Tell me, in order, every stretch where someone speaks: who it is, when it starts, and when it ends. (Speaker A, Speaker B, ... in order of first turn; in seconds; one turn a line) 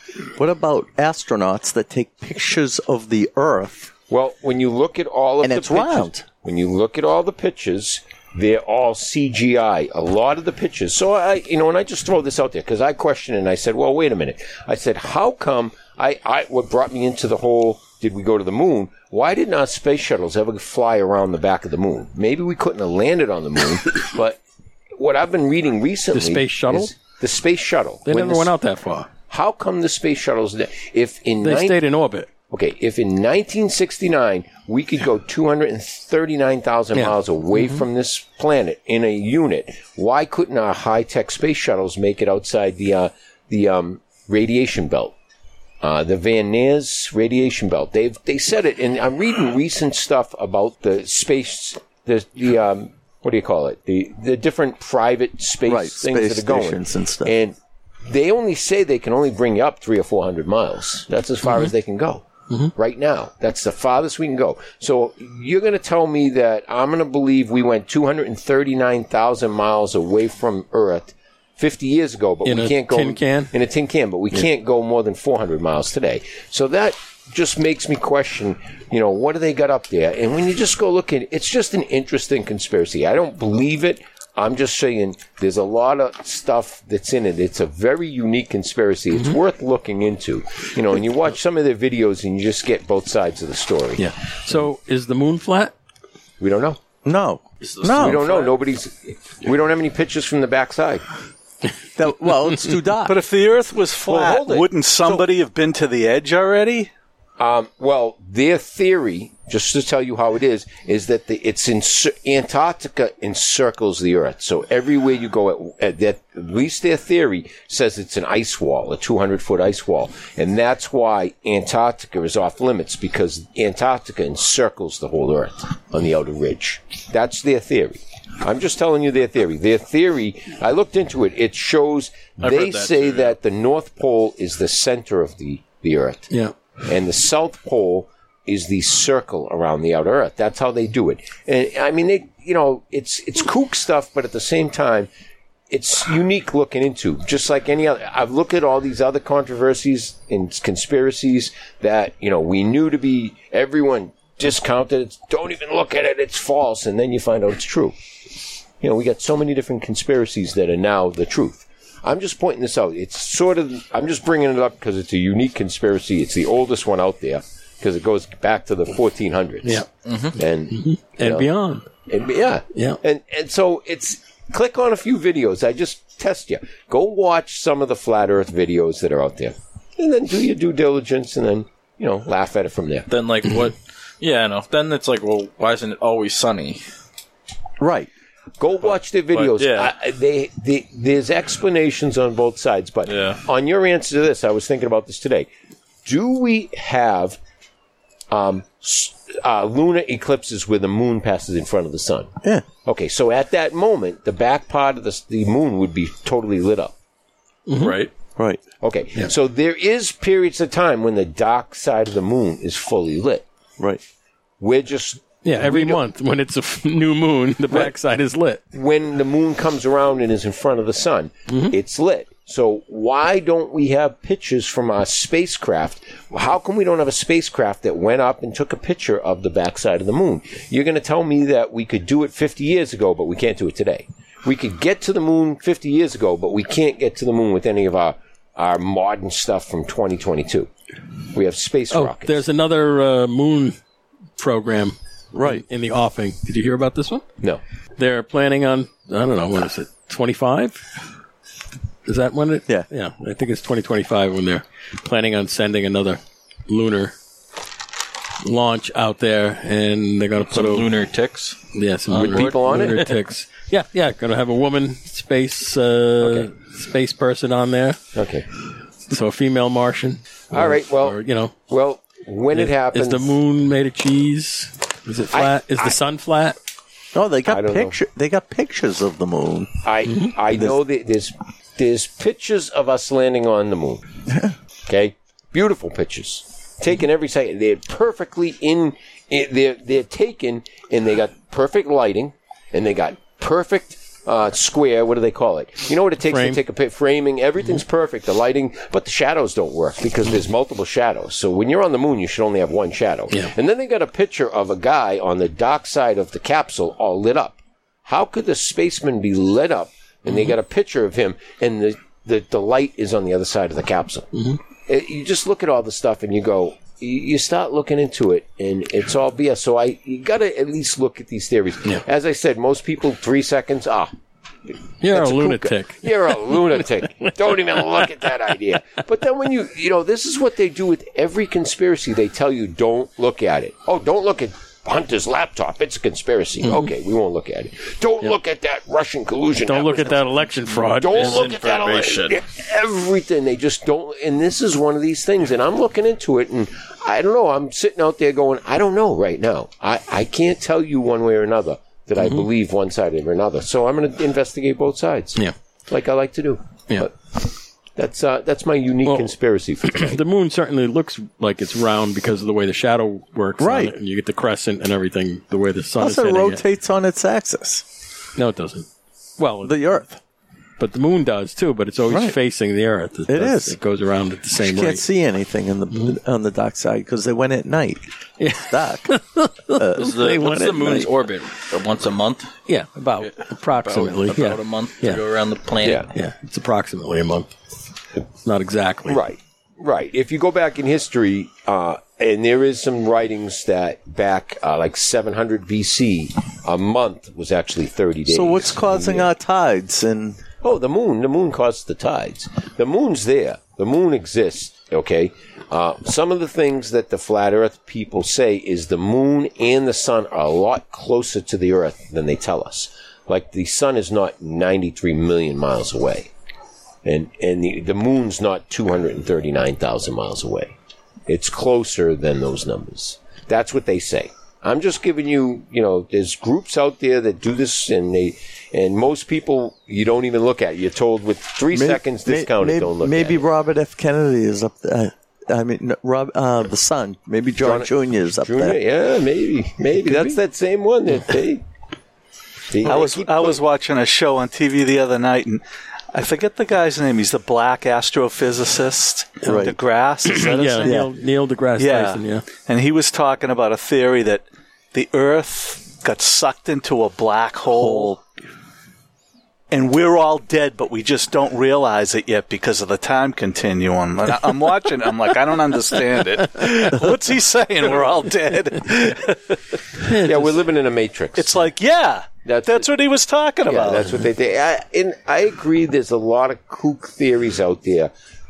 Speaker A: 0.3-3.9
Speaker B: 4.1-24.4
Speaker A: 5.4-6.2
Speaker B: 25.0-28.5
Speaker C: 26.1-26.9
Speaker C: 28.1-29.1
Speaker B: 29.3-31.8
Speaker C: 31.4-32.3
Speaker B: 32.5-45.1
Speaker C: 36.9-37.8
Speaker B: 45.8-57.5
Speaker A: 55.6-57.3
Speaker B: 58.1-62.2
Speaker B: 62.8-94.0
Speaker C: 72.4-73.5
Speaker C: 94.0-95.7
Speaker B: 96.4-96.8
Speaker A: 97.0-98.2
Speaker D: 97.6-98.6
Speaker B: 97.9-101.0
Speaker A: 102.0-103.2
Speaker E: 103.0-106.9
Speaker B: 104.0-104.7
Speaker B: 107.4-136.3
Speaker D: 132.4-133.3
Speaker B: 136.8-145.1
Speaker B: 145.7-157.9
Speaker B: 158.8-169.8
Speaker D: 170.1-170.3
Speaker B: 170.3-171.5
Speaker C: 170.7-171.9
Speaker B: 172.1-183.1
Speaker C: 172.7-173.0
Speaker D: 183.1-186.8
Speaker A: 187.8-188.1
Speaker B: 188.6-195.5
Speaker D: 189.3-189.9
Speaker D: 193.1-193.4
Speaker B: 196.0-197.4
Speaker B: 198.3-202.3
Speaker B: 202.8-206.9
Speaker C: 207.7-207.9
Speaker D: 207.8-208.1
Speaker A: 208.4-208.6
Speaker B: 208.8-213.4
Speaker B: 214.6-216.0
Speaker C: 215.4-218.6
Speaker B: 218.7-240.7
Speaker C: 221.5-221.8
Speaker B: 241.3-242.4
Speaker C: 241.9-243.8
Speaker C: 244.4-247.2
Speaker A: 245.3-245.6
Speaker C: 248.0-250.8
Speaker C: 252.0-257.1
Speaker C: 258.4-260.9
Speaker D: 260.5-261.6
Speaker C: 261.7-268.0
Speaker B: 262.1-263.1
Speaker D: 262.1-263.1
Speaker B: 266.2-266.5
Speaker B: 268.1-268.4
Speaker C: 269.1-271.5
Speaker B: 270.5-271.2
Speaker B: 271.7-273.4
Speaker C: 272.5-276.6
Speaker B: 275.3-275.9
Speaker A: 277.1-279.8
Speaker B: 277.5-277.9
Speaker B: 279.8-284.0
Speaker A: 280.5-280.8
Speaker A: 284.3-284.5
Speaker B: 284.9-314.3
Speaker C: 296.3-296.6
Speaker C: 310.3-310.5
Speaker B: 314.9-324.1
Speaker C: 325.0-327.3
Speaker B: 325.1-357.4
Speaker C: 336.6-336.9
Speaker C: 339.6-341.4
Speaker D: 341.0-342.4
Speaker C: 352.2-352.5
Speaker B: 357.9-360.2
Speaker C: 359.0-359.3
Speaker C: 359.9-366.6
Speaker A: 363.6-363.9
Speaker A: 366.0-367.9
Speaker C: 368.4-368.9
Speaker C: 369.4-370.0
Speaker A: 369.6-370.2
Speaker C: 370.8-375.0
Speaker A: 372.1-372.4
Speaker A: 373.3-373.8
Speaker A: 374.6-380.1
Speaker C: 375.9-376.2
Speaker C: 378.4-381.1
Speaker D: 380.0-382.5
Speaker C: 382.7-385.2
Speaker D: 383.2-386.1
Speaker B: 385.8-386.1
Speaker C: 386.1-387.5
Speaker C: 388.4-389.2
Speaker B: 389.1-399.3
Speaker A: 398.3-400.4
Speaker B: 400.6-416.3
Speaker B: 417.0-420.7
Speaker B: 421.3-433.4
Speaker A: 431.7-438.8
Speaker B: 437.6-441.6
Speaker A: 440.0-440.4
Speaker B: 442.7-443.6
Speaker E: 442.8-451.1
Speaker A: 449.5-449.8
Speaker C: 450.2-452.5
Speaker A: 450.8-451.1
Speaker E: 451.8-458.2
Speaker A: 457.7-458.2
Speaker E: 459.7-469.8
Speaker C: 470.0-470.6
Speaker B: 470.1-471.7
Speaker E: 471.3-474.2
Speaker B: 472.4-472.9
Speaker B: 473.6-478.1